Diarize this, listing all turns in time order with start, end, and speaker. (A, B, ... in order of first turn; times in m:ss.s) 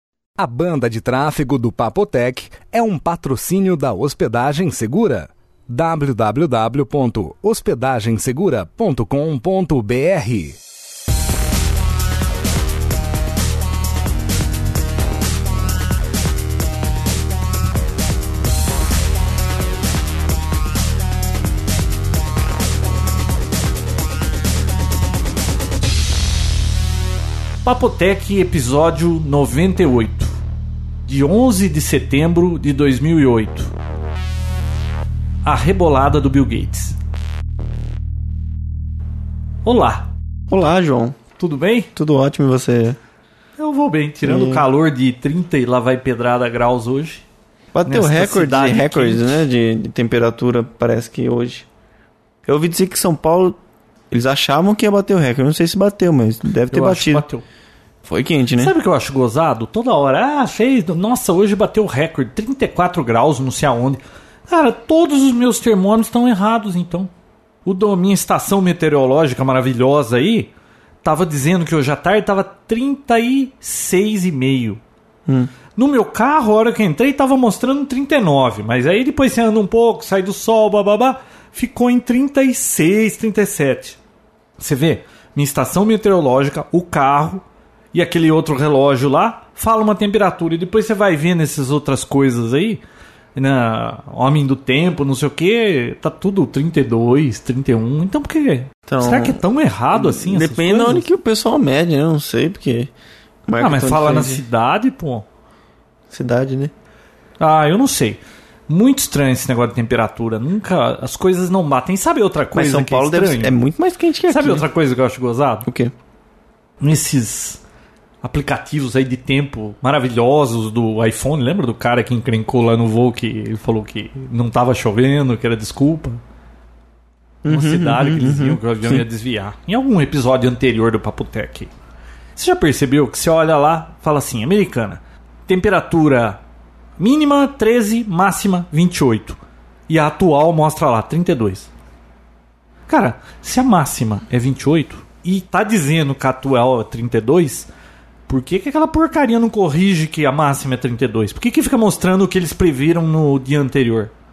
0:00.4-0:10.6 A
0:27.6-0:30.4 B
0:31.1-0:33.7 B
0:35.4-0:37.0 B
0:39.6-0:40.1 B
0:40.5-0:41.2 C
0:41.4-0:41.9 B
0:42.0-0:43.0 C
0:43.6-0:47.2 B
0:44.2-0:44.7 C
0:47.7-0:51.7 C
0:47.9-0:49.3 B
0:52.5-0:53.6 C
0:54.1-0:57.3 C
0:56.7-0:57.4 B
0:58.0-0:58.8 C
0:58.6-1:07.1 B
1:07.6-1:10.5 B
1:11.0-1:14.8 B
1:15.8-1:24.0 B
1:24.6-1:32.8 B
1:33.4-1:41.1 B
1:38.9-1:39.4 C
1:39.9-1:42.9 C
1:43.5-1:44.4 C
1:43.6-1:45.3 B
1:46.1-1:46.7 C
1:47.4-1:53.6 B
1:52.5-1:54.7 C
1:54.3-1:55.7 B
1:55.7-1:55.9 C
1:56.8-1:57.6 B
1:58.2-2:06.2 B
2:07.4-2:09.0 C
2:07.5-2:11.7 B
2:12.4-2:16.4 B
2:17.0-2:21.7 B
2:22.9-2:27.7 B
2:28.3-2:34.1 B